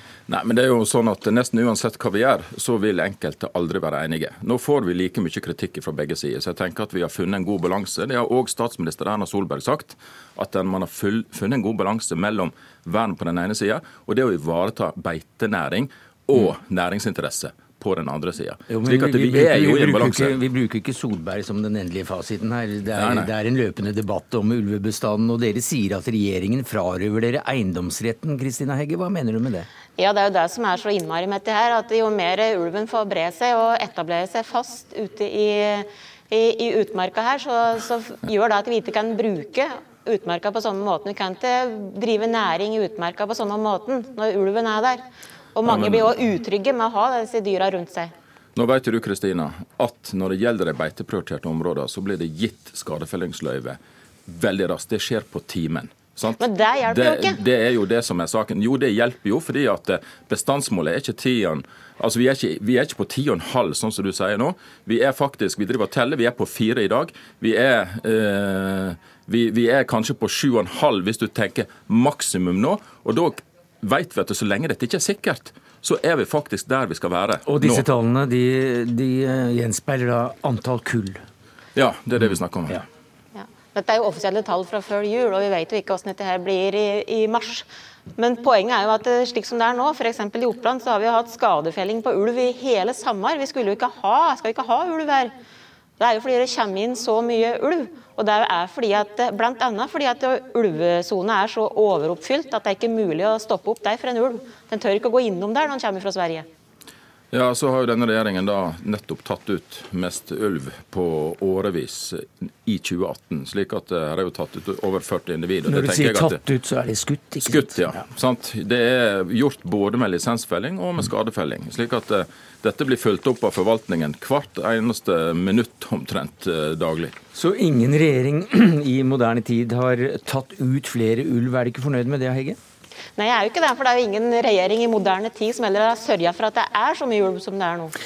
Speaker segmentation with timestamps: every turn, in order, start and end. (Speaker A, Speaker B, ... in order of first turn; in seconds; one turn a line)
Speaker A: 0.3-20.4
Speaker B: 18.7-29.7
Speaker A: 23.0-23.3
Speaker C: 30.0-45.0
Speaker C: 45.6-48.1
Speaker A: 45.6-46.2
Speaker A: 48.5-77.9
Speaker C: 56.4-57.3
Speaker B: 77.4-81.2
Speaker A: 81.8-82.8
Speaker C: 83.3-95.3
Speaker C: 96.0-106.5
Speaker A: 107.3-116.4
Speaker B: 115.7-118.0
Speaker A: 117.4-127.2
Speaker B: 127.3-132.6
Speaker C: 133.2-137.9